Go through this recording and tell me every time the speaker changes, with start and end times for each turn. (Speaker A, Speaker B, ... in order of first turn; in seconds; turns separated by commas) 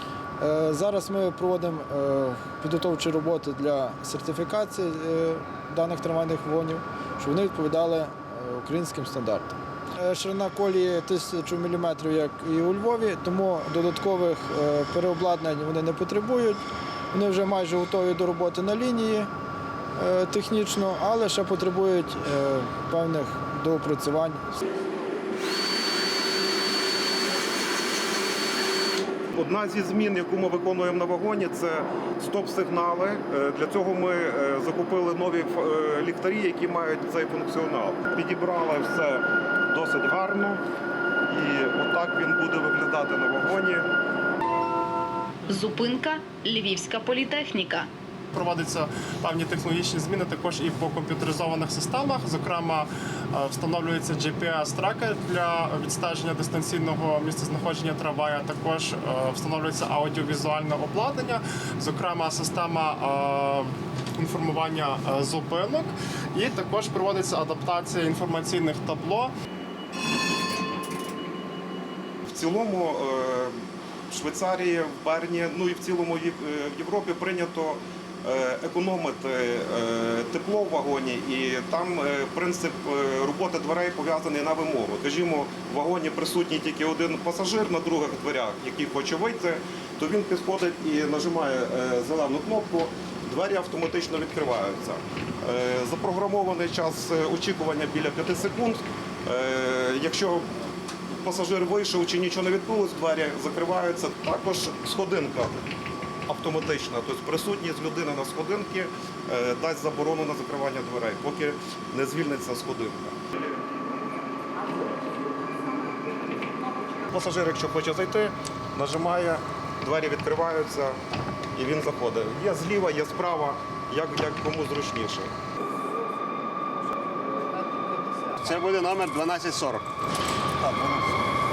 Speaker A: 0.4-16.6, Speaker A: 17.1-19.3, Speaker A: 19.9-24.6, Speaker B: 29.4-40.6, Speaker B: 41.3-43.9, Speaker C: 45.5-47.9, Speaker D: 48.3-69.3, Speaker B: 72.3-73.5, Speaker B: 74.1-100.5, Speaker B: 101.1-105.6, Speaker B: 106.3-113.2, Speaker B: 117.1-121.0, Speaker B: 121.5-125.3, Speaker E: 127.7-129.8, Speaker E: 130.6-131.1